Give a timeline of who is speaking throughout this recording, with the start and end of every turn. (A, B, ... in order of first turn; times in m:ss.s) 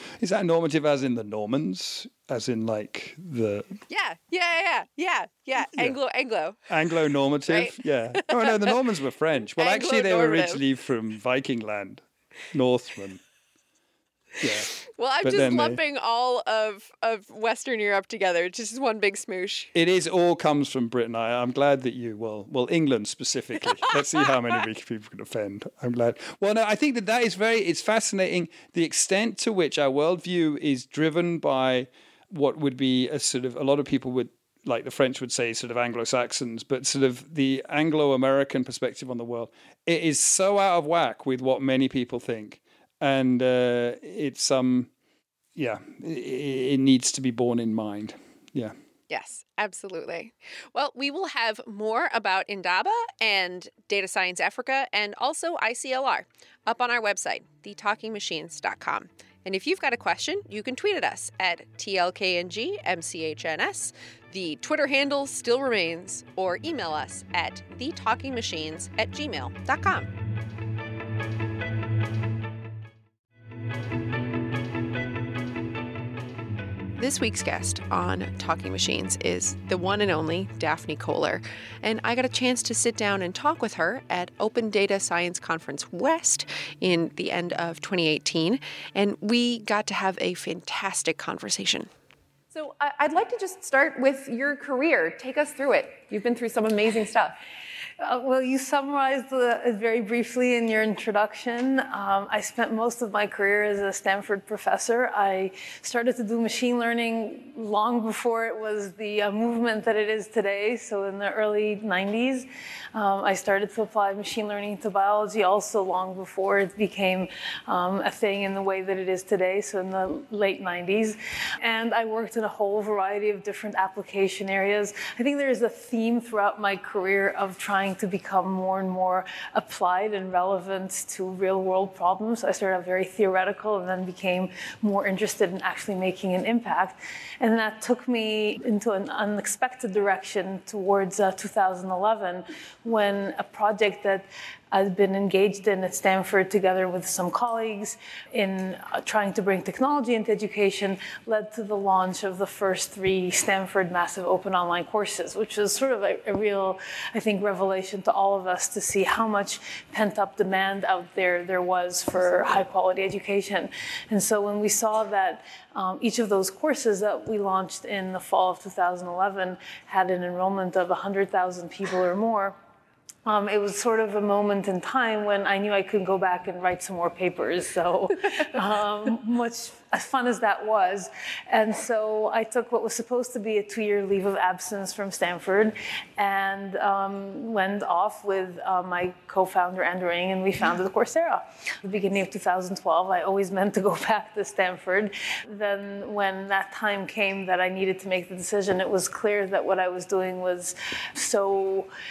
0:00.2-0:03.8 A
0:03.9-0:06.6 B
0:05.6-0:06.0 A
0:06.7-0:13.2 A
0:07.5-0:08.7 B
0:09.6-0:10.6 B
0:14.4-0:15.8 A
0:14.7-0:19.7 B
0:19.7-0:44.9 A
0:45.6-0:48.7 A
0:49.1-1:10.1 B
1:17.0-1:31.9 B
1:32.5-1:37.4 B
1:38.0-2:52.6 C
2:53.2-3:21.9 C